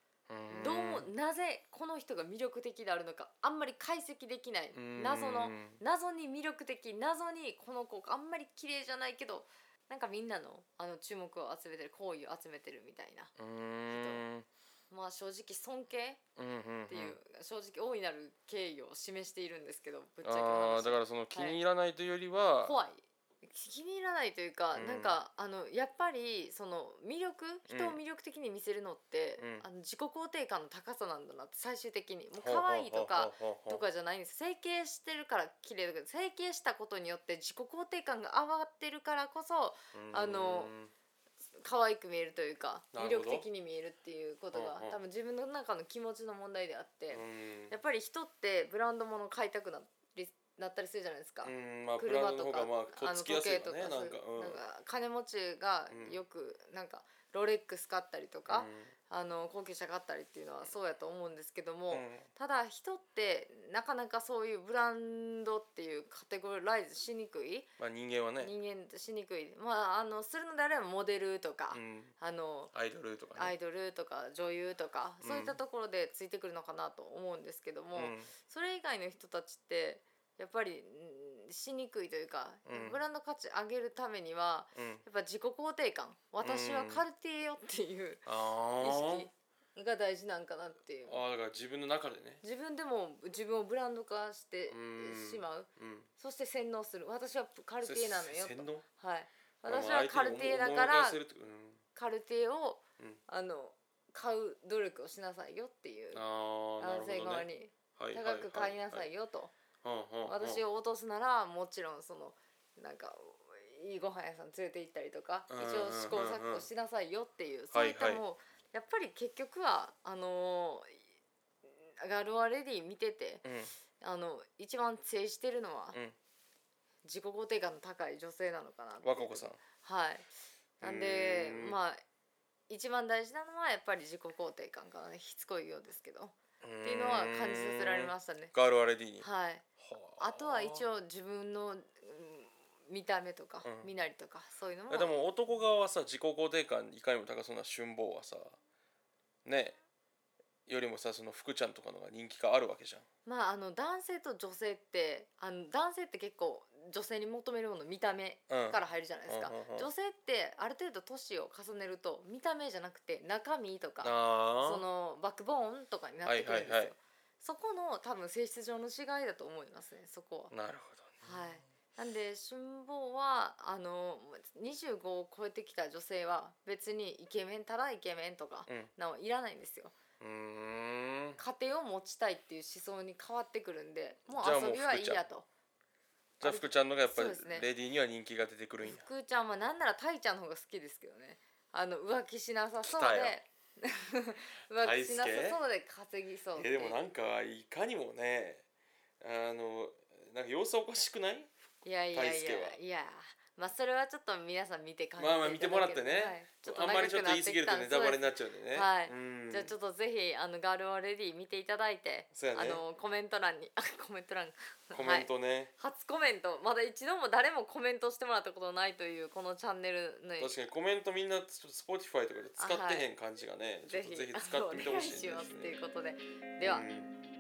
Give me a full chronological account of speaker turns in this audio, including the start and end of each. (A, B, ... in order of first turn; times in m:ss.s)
0:00.3-0:01.1 A
0:00.5-0:13.4 B
0:04.7-0:05.8 A
0:13.4-0:14.5 A
0:13.9-0:14.2 B
0:14.9-0:16.2 B
0:16.4-0:17.2 A
0:16.9-0:21.6 B
0:20.2-0:22.8 A
0:22.6-0:40.7 B
0:24.7-0:25.2 A
0:27.7-0:28.0 A
0:29.4-0:29.7 A
0:32.4-0:33.8 A
0:39.9-0:40.9 A
0:41.6-1:07.7 B
0:42.9-0:43.5 A
0:44.5-0:45.0 A
0:47.1-0:47.8 A
0:51.4-0:54.6 A
0:55.9-0:56.2 A
0:58.5-0:58.9 A
1:01.9-1:02.3 A
1:07.8-1:08.5 A
1:08.4-1:12.7 B
1:11.7-1:12.1 A
1:12.7-1:13.6 A
1:13.4-1:31.2 B
1:15.2-1:15.6 A
1:18.0-1:18.3 A
1:22.7-1:23.0 A
1:24.8-1:25.0 A
1:26.4-1:27.1 A
1:28.3-1:29.3 A
1:31.1-1:32.4 A
1:32.4-1:41.2 B
1:34.7-1:36.1 A
1:37.8-1:38.9 A
1:39.7-1:41.8 A
1:42.0-1:46.2 B
1:46.1-1:49.1 A
1:46.8-1:49.5 B
1:49.8-1:50.6 A
1:50.3-2:01.0 B
1:55.5-1:56.7 A
1:57.7-1:58.2 A
2:01.7-2:03.4 B
2:03.4-2:03.8 A
2:04.0-2:06.0 B
2:07.0-2:10.3 B
2:09.0-2:09.6 A
2:10.8-2:11.8 A
2:10.8-2:12.0 B
2:12.7-2:18.5 B
2:16.6-2:19.3 A
2:19.2-2:19.6 B
2:19.8-2:20.9 A
2:20.2-2:25.2 B
2:23.6-2:23.9 A
2:24.9-2:28.6 A
2:29.4-2:29.8 A
2:30.7-2:33.0 A
2:33.2-2:50.5 B
2:38.5-2:39.9 A
2:44.0-2:44.8 A
2:46.2-2:46.9 A
2:50.5-2:51.3 A
2:51.2-3:00.0 B
3:00.2-3:01.4 A
3:01.4-3:05.5 B
3:04.4-3:05.2 A
3:06.4-3:09.1 A
3:06.4-3:07.7 B
3:08.8-3:17.0 B
3:12.8-3:13.4 A
3:14.7-3:15.6 A
3:16.6-3:18.6 A
3:19.2-3:21.5 A
3:21.8-3:40.6 B
3:22.1-3:22.8 A
3:25.2-3:29.7 A
3:32.3-3:32.8 A
3:34.9-3:35.7 A
3:40.4-3:45.8 A
3:42.6-3:43.1 B
3:43.9-3:46.9 B
3:46.6-3:47.2 A